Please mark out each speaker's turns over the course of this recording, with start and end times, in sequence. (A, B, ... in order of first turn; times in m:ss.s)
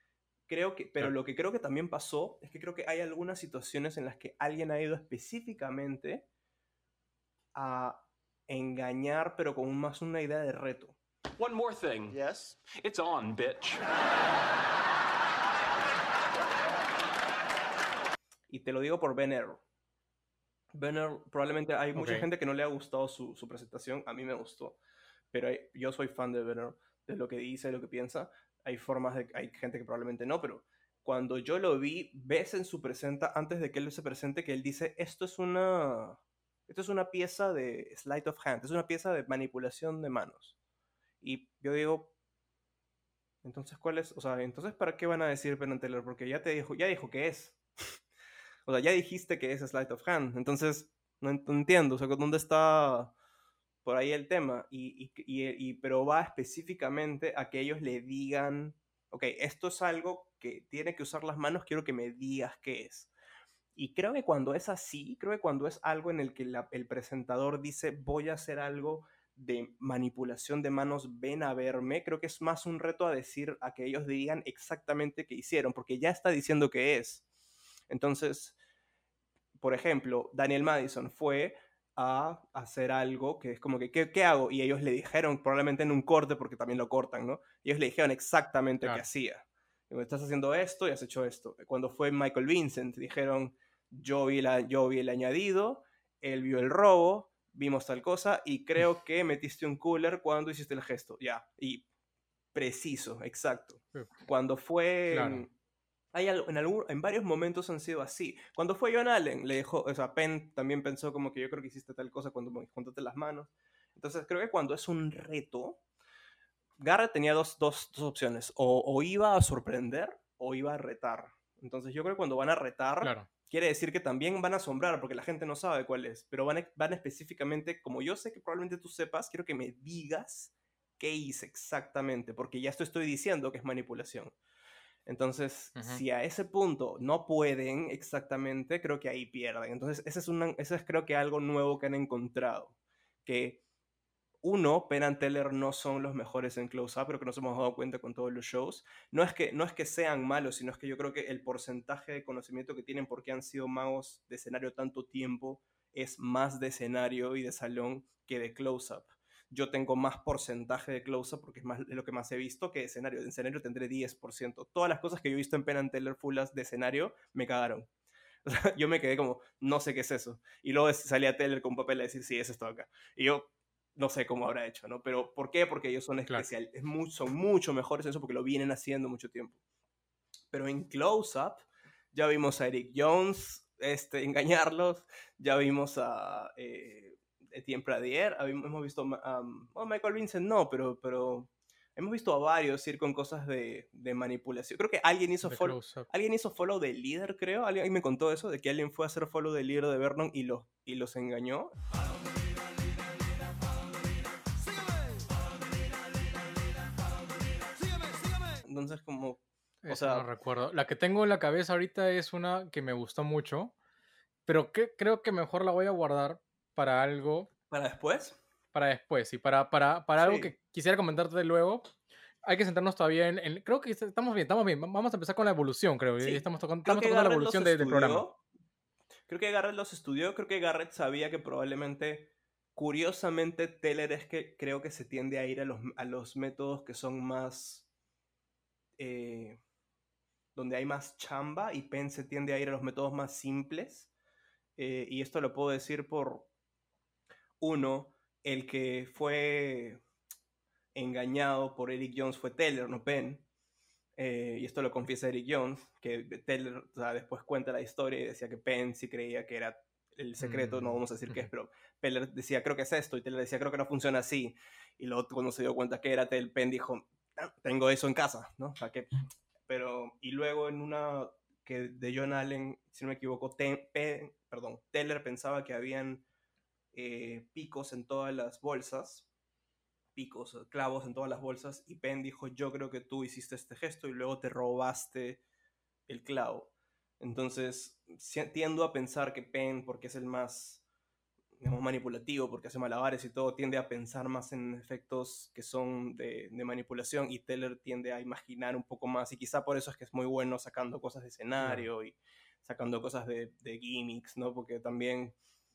0:00.5-0:06.2 A
0:07.5-0:11.0 A
0:11.4-0:13.8 B
0:18.5-0:19.6 A
0:20.7-0:24.8 A
0:21.9-0:22.3 C
0:25.3-0:40.6 A
0:41.2-0:42.1 A
0:43.4-0:48.0 A
0:48.6-0:53.1 A
0:53.8-1:03.1 A
1:03.7-1:17.2 A
1:17.9-1:18.6 A
1:19.6-1:41.8 A
1:42.5-1:45.5 A
1:45.1-1:45.4 C
1:46.1-1:55.8 A
1:56.8-2:14.3 A
2:03.0-2:03.3 C
2:15.0-2:23.6 A
2:15.8-2:16.0 C
2:24.4-2:47.9 A
2:48.4-2:59.6 A
3:00.5-3:21.7 A
3:15.4-3:16.1 C
3:28.6-3:30.2 A
3:29.8-3:33.7 C
3:34.5-3:37.5 C
3:37.7-3:38.4 A
3:38.7-3:41.9 C
3:40.2-3:40.5 A
3:42.4-3:48.3 C
3:46.2-3:48.4 A
3:49.3-3:57.9 A
3:59.0-3:59.6 A
4:00.5-4:04.1 A
4:04.8-4:06.5 A
4:07.6-4:10.0 A
4:10.9-4:13.4 A
4:14.2-4:29.1 A
4:20.4-4:21.5 C
4:29.6-4:36.2 A
4:36.9-4:39.3 A
4:40.2-4:45.4 A
4:46.1-4:50.8 A
4:51.6-5:05.3 A
5:01.6-5:01.9 C